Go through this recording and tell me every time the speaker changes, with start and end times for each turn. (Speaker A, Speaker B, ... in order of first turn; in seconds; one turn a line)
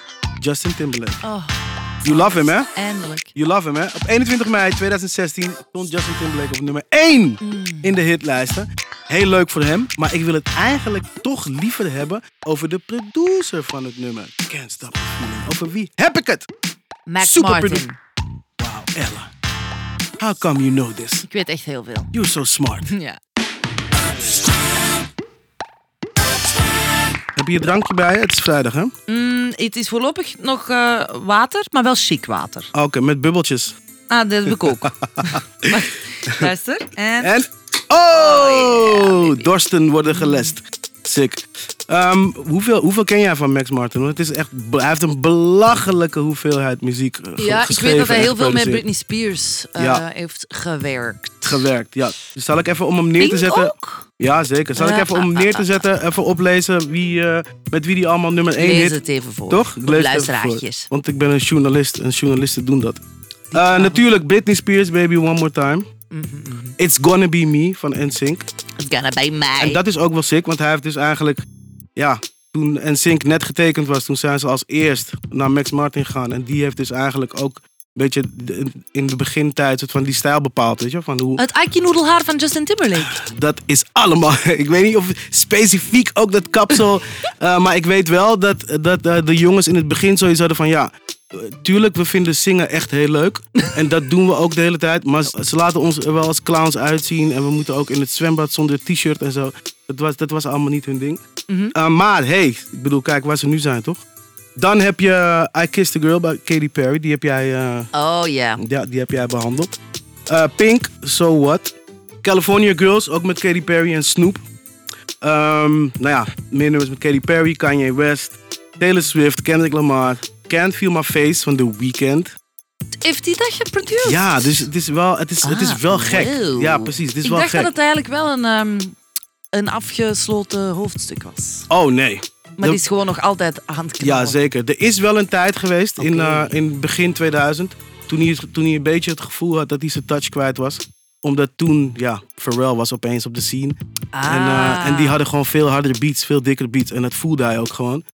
Speaker A: 0.4-1.2
Speaker B: 1.2-3.3
Speaker A: 2.0-2.7
Speaker A: 3.4-16.5
Speaker B: 7.4-8.0
Speaker B: 17.1-18.0
Speaker A: 17.2-17.8
Speaker A: 18.6-19.3
Speaker A: 20.2-21.2
Speaker B: 21.2-22.1
Speaker A: 22.1-22.9
Speaker B: 22.8-23.2
Speaker A: 27.4-28.9
Speaker B: 29.1-32.7
Speaker A: 32.7-33.8
Speaker B: 34.1-37.3
Speaker A: 34.5-36.5
Speaker A: 37.2-48.8
Speaker B: 38.1-39.5
Speaker B: 40.0-40.5
Speaker B: 47.4-51.6
Speaker A: 49.8-50.0
Speaker A: 51.4-63.0
Speaker B: 53.2-54.0
Speaker B: 54.8-55.8
Speaker B: 58.6-60.9
Speaker B: 63.5-64.0
Speaker A: 63.5-65.8
Speaker B: 66.1-66.8
Speaker A: 66.8-68.5
Speaker B: 68.8-69.8
Speaker A: 69.6-71.4
Speaker A: 72.0-81.4
Speaker B: 81.4-83.2
Speaker A: 82.9-101.2
Speaker B: 101.5-101.7
Speaker A: 101.7-104.0
Speaker A: 104.6-107.9
Speaker B: 107.9-108.6
Speaker A: 108.6-109.7
Speaker A: 110.3-114.4
Speaker A: 115.2-122.3
Speaker B: 123.0-124.7
Speaker A: 123.9-127.7
Speaker B: 125.4-128.9
Speaker B: 129.5-131.7
Speaker A: 131.7-132.8
Speaker B: 132.6-134.4
Speaker A: 134.0-148.0
Speaker B: 136.0-136.5
Speaker B: 144.1-145.2